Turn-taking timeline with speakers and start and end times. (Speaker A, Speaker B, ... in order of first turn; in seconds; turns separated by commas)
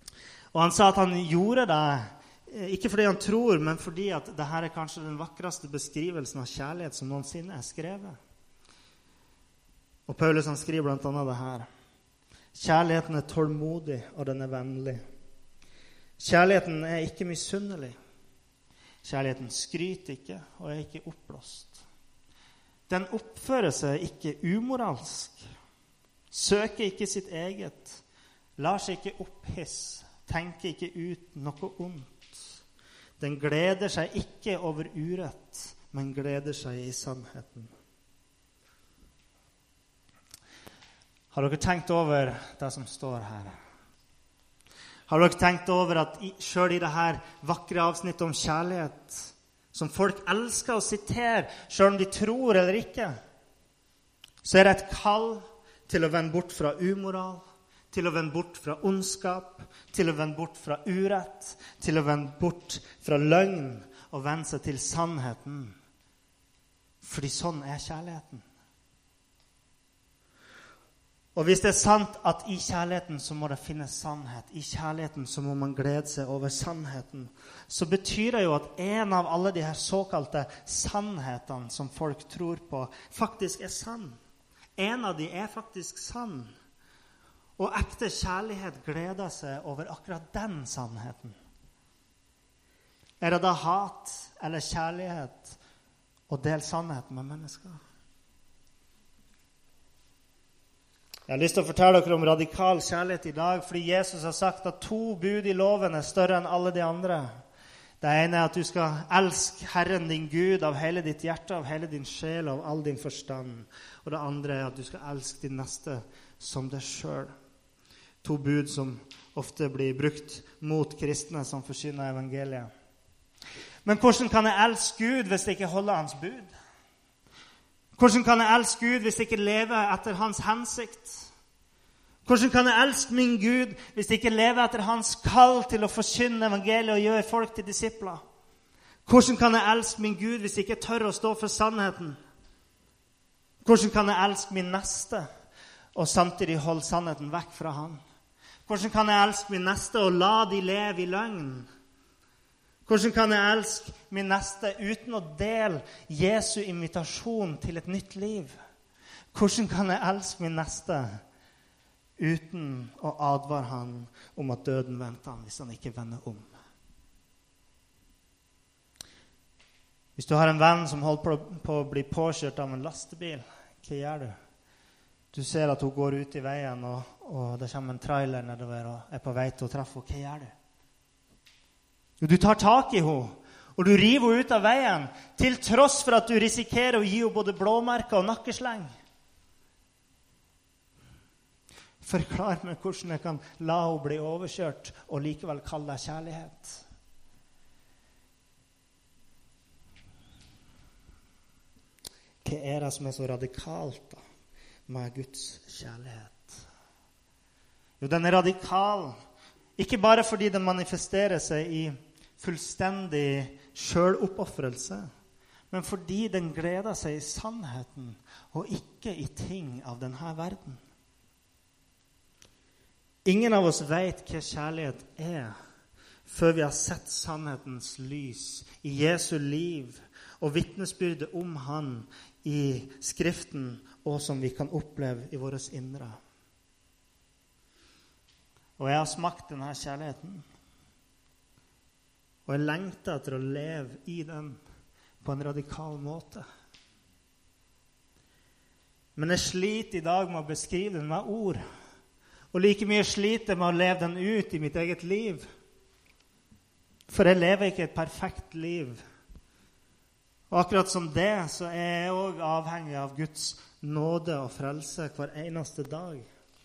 Speaker A: 0.5-8.2, Speaker A: 10.1-11.7, Speaker A: 12.5-15.0, Speaker A: 16.2-17.9, Speaker A: 19.0-21.8, Speaker A: 22.9-25.5, Speaker A: 26.3-28.0, Speaker A: 28.6-32.5, Speaker A: 33.2-37.7, Speaker A: 41.3-43.6, Speaker A: 45.1-53.1, Speaker A: 54.4-65.8, Speaker A: 67.0-68.4, Speaker A: 71.3-84.2, Speaker A: 84.8-86.5, Speaker A: 87.6-91.3, Speaker A: 93.2-95.6, Speaker A: 96.3-97.8, Speaker A: 101.3-107.3, Speaker A: 108.0-117.3, Speaker A: 118.2-122.7, Speaker A: 123.8-126.5, Speaker A: 128.0-131.3, Speaker A: 132.2-138.2, Speaker A: 139.1-142.2, Speaker A: 143.6-145.3, Speaker A: 145.9-148.0, Speaker A: 148.7-151.7, Speaker A: 152.8-158.5, Speaker A: 159.3-161.2, Speaker A: 162.2-166.5, Speaker A: 170.2-174.3, Speaker A: 175.3-180.5, Speaker A: 182.2-188.9, Speaker A: 192.0-196.8, Speaker A: 202.4-204.2, Speaker A: 204.9-206.6, Speaker A: 208.0-209.2, Speaker A: 209.8-215.1, Speaker A: 215.7-220.8, Speaker A: 223.2-225.5, Speaker A: 226.2-236.2, Speaker A: 238.8-240.4, Speaker A: 242.4-244.6, Speaker A: 245.2-246.4, Speaker A: 249.2-251.6, Speaker A: 252.5-255.5, Speaker A: 257.1-259.0, Speaker A: 260.5-266.3